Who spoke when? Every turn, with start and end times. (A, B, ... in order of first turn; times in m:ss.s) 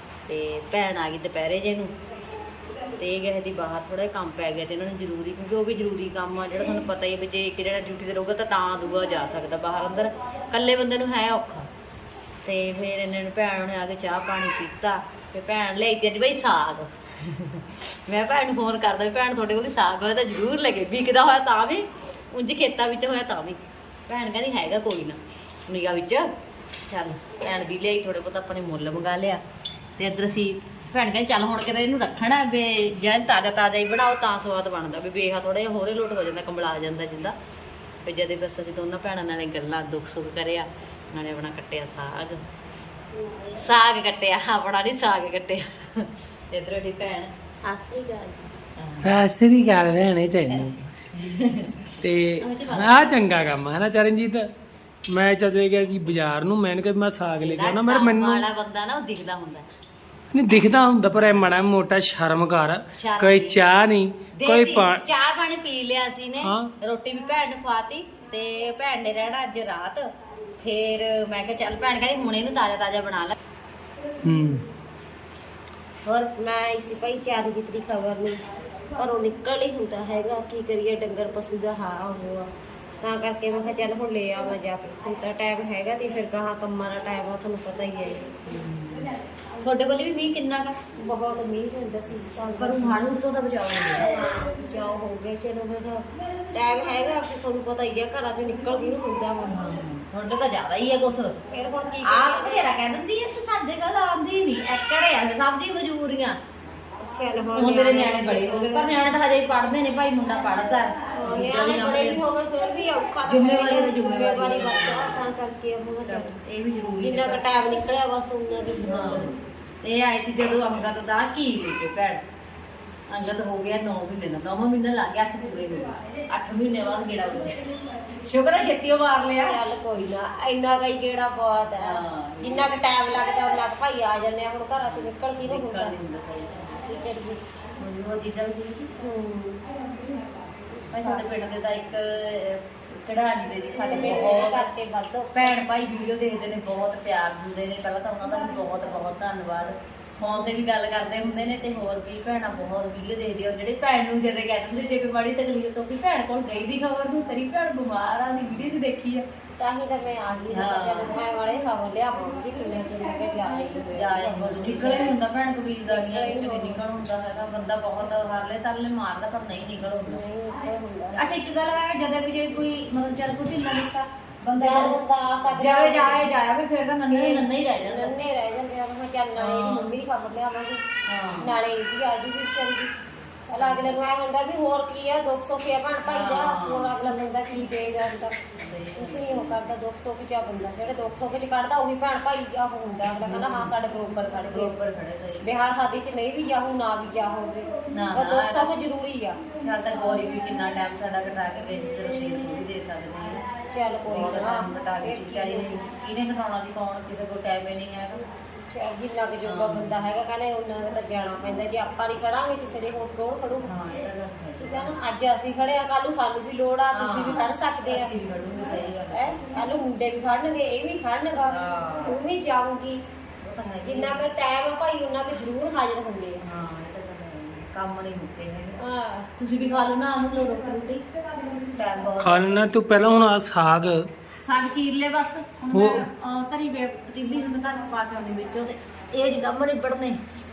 0:00.2-0:01.9 A
0:03.0-0:11.7 A
0:12.4-0:26.3 A
0:26.9-0:29.4 A
0:30.0-0:37.4 A
0:38.0-0:42.4 A
0:43.5-0:47.3 A
0:47.6-0:48.5 B
0:48.8-0:49.2 A
0:49.0-0:50.8 C
0:50.5-0:53.2 A
0:52.0-0:54.5 C
0:55.1-0:58.4 C
0:57.4-0:59.6 A
1:00.3-1:05.0 C
1:02.9-1:03.6 A
1:04.3-1:13.4 A
1:06.4-1:06.7 C
1:14.2-1:14.6 C
1:16.0-1:16.3 A
1:16.3-1:18.4 B
1:18.9-1:28.2 B
1:28.4-1:30.8 A
1:30.9-1:33.0 B
1:32.5-1:34.1 A
1:34.0-1:39.8 B
1:39.4-1:41.4 A
1:41.5-1:42.7 B
1:42.0-1:46.4 A
1:47.0-1:49.1 B
1:47.5-1:52.2 A
1:51.2-1:56.4 B
1:53.2-1:55.3 A
1:56.0-1:57.4 A
1:57.0-1:59.4 B
1:58.8-1:59.3 A
1:59.8-2:02.2 A
2:03.1-2:09.6 A
2:09.4-2:16.0 B
2:11.8-2:12.8 A
2:14.8-2:16.8 A
2:16.8-2:17.4 B
2:17.8-2:18.9 A
2:19.0-2:19.7 B
2:20.9-2:24.7 A
2:23.8-2:25.6 B
2:25.3-2:39.2 A
2:39.6-2:45.1 B
2:40.5-2:41.2 A
2:43.9-2:50.2 A
2:45.9-2:46.8 B
2:50.0-2:51.4 B
2:51.1-2:55.0 A
2:54.5-2:56.3 B
2:55.5-2:58.2 A
2:57.1-3:00.8 B
2:59.4-2:59.9 A
3:01.0-3:01.5 A
3:01.4-3:02.9 B
3:03.5-3:08.4 B
3:03.6-3:04.0 A
3:06.0-3:07.0 A
3:08.5-3:09.6 A
3:09.0-3:14.7 B
3:13.1-3:13.8 A
3:14.3-3:15.4 A
3:15.4-3:19.4 B
3:17.9-3:18.7 A
3:19.6-3:23.4 A
3:23.5-3:25.8 B
3:24.1-3:28.2 A
3:28.7-3:33.7 B
3:29.4-3:30.0 A
3:33.6-3:35.0 A
3:34.6-3:38.1 B
3:36.9-3:39.7 A
3:39.1-3:43.0 B
3:41.4-3:42.2 A
3:43.4-3:44.3 A
3:43.8-3:46.4 B
3:46.4-3:48.8 A
3:48.8-3:49.3 B
3:49.4-3:52.7 A
3:52.2-3:54.1 C
3:54.4-4:00.2 A
3:55.7-3:56.1 C